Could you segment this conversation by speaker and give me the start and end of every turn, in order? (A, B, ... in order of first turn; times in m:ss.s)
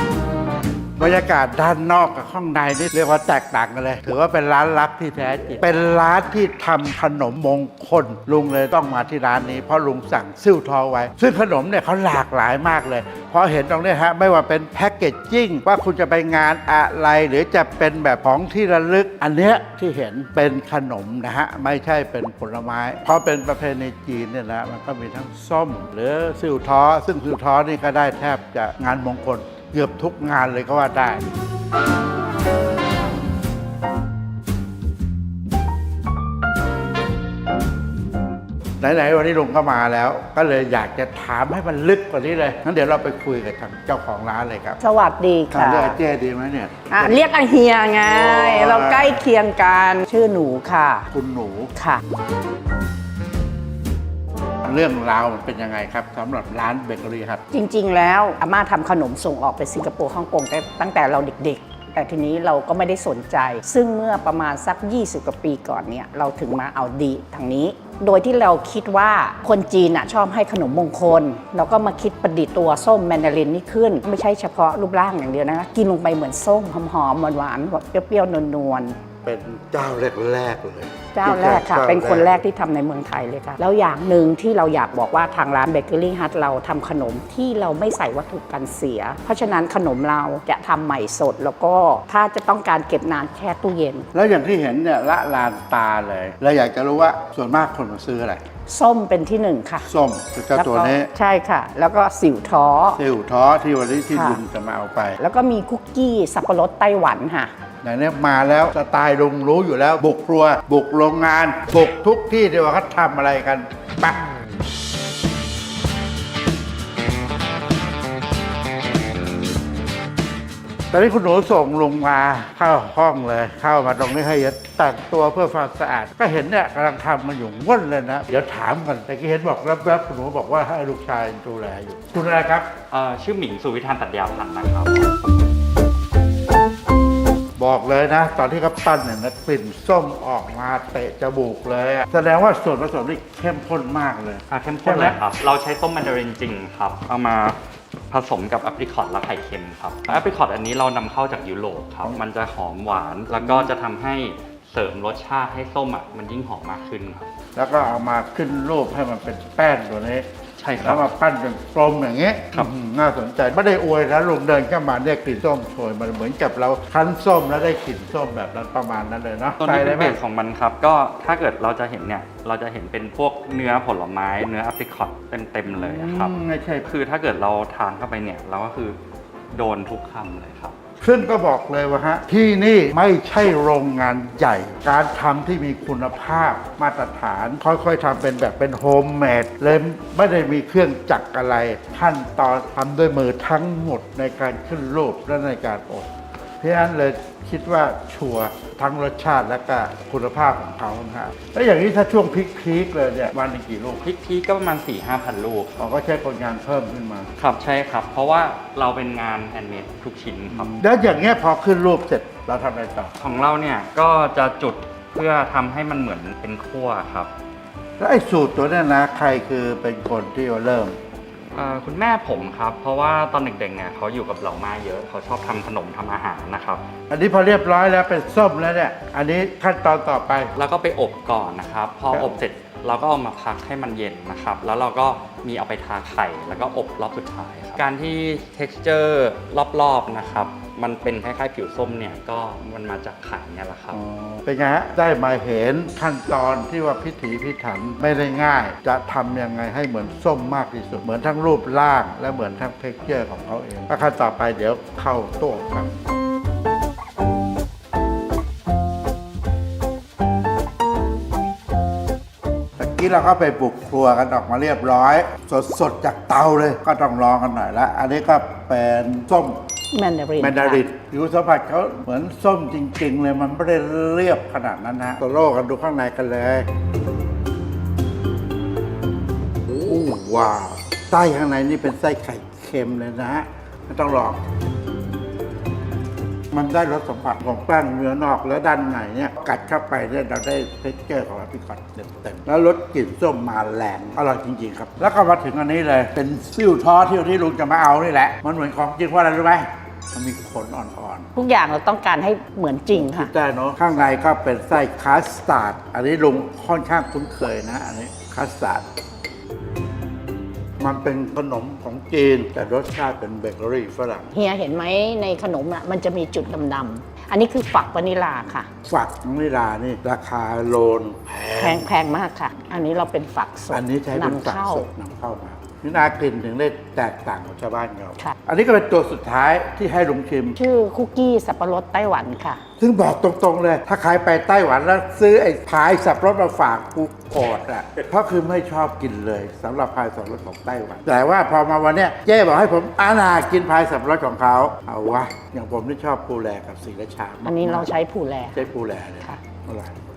0:01.0-0:31.3 A
0:38.8-0:44.8 A
0:44.8-0:46.0 B
0:45.5-0:47.2 A
0:46.9-0:51.1 B
0:48.0-0:49.2 A
0:51.1-0:51.7 A
0:51.8-0:52.0 B
0:54.6-0:57.4 A
0:57.5-1:19.0 B
1:19.2-1:22.3 A
1:21.1-1:34.1 B
1:34.1-1:38.4 A
1:38.7-1:39.9 B
1:39.9-1:41.1 A
1:40.6-1:43.0 B
1:43.0-1:45.2 A
1:44.1-1:44.4 B
1:45.2-1:47.5 B
1:47.8-1:54.2 A
2:00.9-2:12.7 A
2:12.9-2:15.1 C
2:17.6-2:25.2 A
2:24.5-2:27.6 C
2:28.1-2:37.3 C
2:33.4-2:33.7 A
2:37.6-2:40.3 A
2:40.6-2:41.0 C
2:40.8-2:50.2 A
2:49.6-2:59.0 C
2:55.7-2:56.9 A
2:59.5-3:00.8 C
3:01.0-3:16.1 A
3:16.6-3:24.1 A
3:24.0-3:25.8 C
3:25.8-3:27.3 A
3:27.4-3:30.8 C
3:30.5-3:33.2 A
3:33.2-3:37.3 C
3:38.0-3:41.0 A
3:41.5-3:46.8 C
3:47.1-3:50.5 A
3:50.6-4:04.0 C
4:03.9-4:16.0 A
4:22.8-4:29.7 A
4:29.9-4:30.8 B
4:30.4-4:36.7 A
4:39.7-4:44.4 A
4:46.5-5:01.3 A
5:01.4-5:03.3 B
5:02.9-5:08.9 A
5:10.8-5:14.3 A
5:14.3-5:18.7 B
5:18.9-5:21.9 A
5:21.6-5:24.9 B
5:23.7-5:30.6 A
5:30.6-5:32.6 B
5:32.8-5:48.0 A
5:47.4-5:48.7 B
5:48.5-5:50.0 A